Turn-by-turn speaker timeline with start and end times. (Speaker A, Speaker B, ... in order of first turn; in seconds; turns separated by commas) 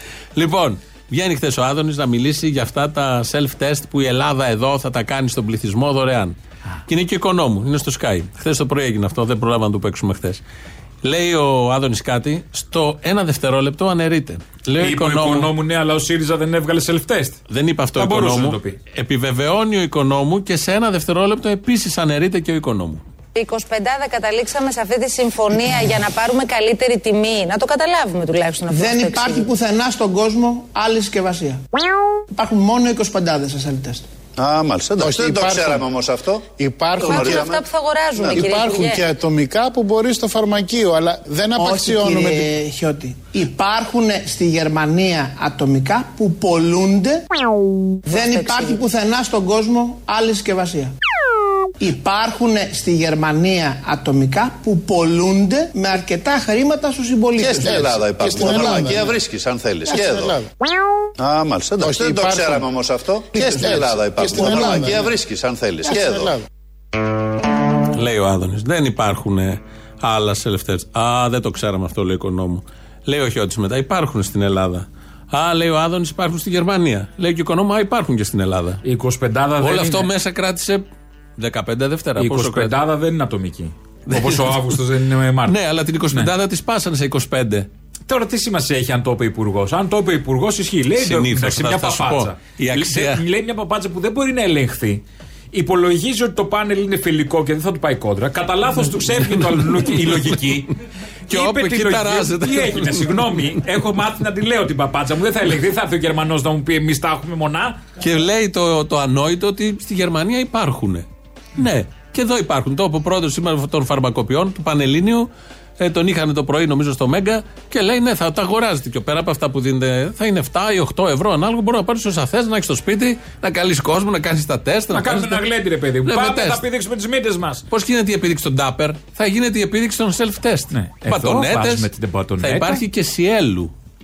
Speaker A: 0.3-10.4, Speaker A: 11.0-15.5, Speaker B: 14.8-17.4, Speaker A: 17.5-23.0, Speaker B: 17.9-18.8, Speaker C: 23.3-29.5, Speaker D: 28.7-31.6, Speaker D: 32.3-34.0, Speaker E: 34.4-36.5, Speaker F: 35.0-35.9, Speaker F: 36.5-37.5, Speaker E: 37.0-37.6, Speaker C: 37.0-39.0, Speaker F: 38.3-42.5, Speaker D: 41.6-47.2, Speaker D: 48.0-50.9, Speaker C: 48.1-48.8, Speaker D: 51.8-58.9, Speaker F: 57.4-59.1, Speaker E: 57.4-60.4, Speaker F: 59.9-60.5, Speaker E: 61.2-66.3, Speaker F: 61.8-62.7, Speaker F: 63.3-65.1, Speaker D: 63.4-63.6, Speaker F: 65.8-66.4, Speaker A: 67.9-78.8, Speaker B: 78.8-80.1, Speaker A: 79.6-80.8, Speaker A: 81.4-82.8, Speaker B: 82.2-85.6, Speaker A: 84.1-84.8, Speaker A: 85.4-87.7, Speaker B: 88.1-100.7, Speaker A: 91.0-93.2, Speaker A: 99.0-100.5, Speaker A: 101.3-103.6, Speaker B: 101.3-107.8, Speaker A: 108.0-125.5, Speaker B: 124.9-127.6, Speaker A: 126.0-126.6, Speaker A: 127.7-131.9, Speaker B: 130.7-132.8, Speaker A: 132.4-133.7